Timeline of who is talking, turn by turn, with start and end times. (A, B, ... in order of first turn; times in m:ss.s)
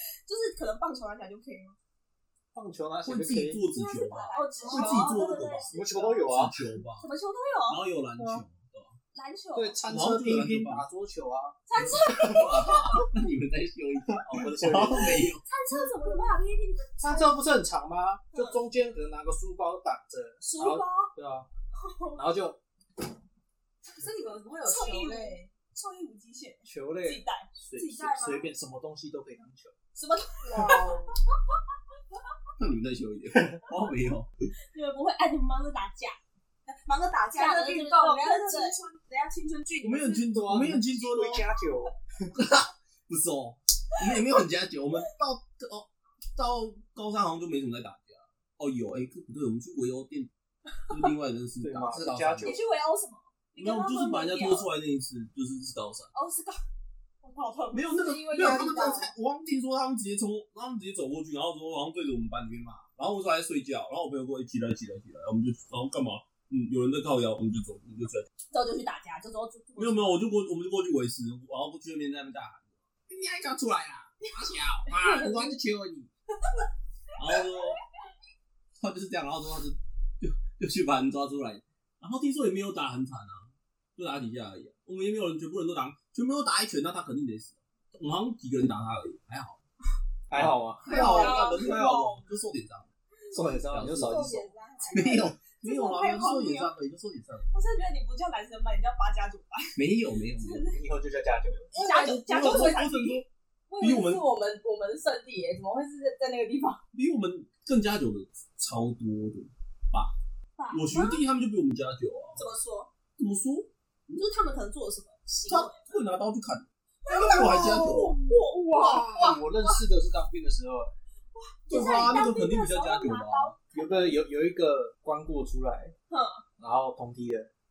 0:00.2-0:01.8 A
0:02.5-0:03.6 B
0:03.0-0:07.1 C
0:03.7-0:06.3 A
0:04.1-0:05.2 D
0:05.6-0:06.6 B
0:07.0-0:07.8 A
0:07.7-0:08.9 C
0:09.1-0:09.8 A
0:09.5-0:12.4 B
0:09.8-0:10.9 C
0:11.7-0:13.0 A
0:11.8-0:12.3 D
0:12.1-0:15.4 C
0:14.1-0:15.3 B
0:15.4-0:17.4 A
0:17.0-0:21.5 B
0:20.4-0:21.1 A
0:21.8-0:22.2 A
0:22.1-0:22.6 B
0:23.9-0:25.5 D
0:24.6-0:28.5 A
0:26.6-0:29.7 B
0:29.9-0:31.0 A
0:30.5-0:31.1 D
0:32.6-0:34.3 C
0:34.7-0:36.2 A
0:36.6-0:40.3 D
0:37.4-0:38.7 A
0:39.8-0:41.4 C
0:40.3-0:42.3 B
0:42.3-0:50.3 C
0:50.9-0:52.6 C
0:51.6-0:52.6 B
0:52.4-0:54.7 A
0:53.6-0:56.1 C
0:56.1-0:56.6 A
0:57.2-0:58.0 A
0:57.7-1:08.3 C
0:58.0-0:59.1 E
1:08.5-1:10.2 A
1:09.8-1:16.1 C
1:17.2-1:17.8 C
1:18.8-1:29.6 C
1:30.3-1:31.0 B
1:30.3-1:32.9 C
1:30.9-1:32.0 A
1:30.9-1:31.8 D
1:33.3-1:34.5 B
1:33.7-1:34.3 C
1:34.1-1:35.1 E
1:34.8-1:36.7 A
1:34.9-1:37.5 C
1:37.5-1:39.8 A
1:39.8-1:40.7 C
1:40.4-1:40.8 A
1:40.6-1:41.7 B
1:41.7-1:43.2 A
1:41.8-1:43.2 C
1:42.3-1:42.7 E
1:43.7-1:46.8 E
1:43.8-1:44.2 D
1:43.8-1:44.2 C
1:46.9-1:50.1 C
1:50.6-1:51.2 A
1:50.7-1:52.4 C
1:52.4-1:52.9 A
1:53.2-1:53.7 C
1:54.1-1:55.8 A
1:55.5-1:58.2 C
1:57.0-1:59.8 A
1:57.1-1:59.3 D
1:58.8-2:00.9 B
2:01.4-2:04.2 A
2:01.7-2:03.6 C
2:03.7-2:05.9 B
2:06.1-2:06.4 A
2:06.6-2:07.5 B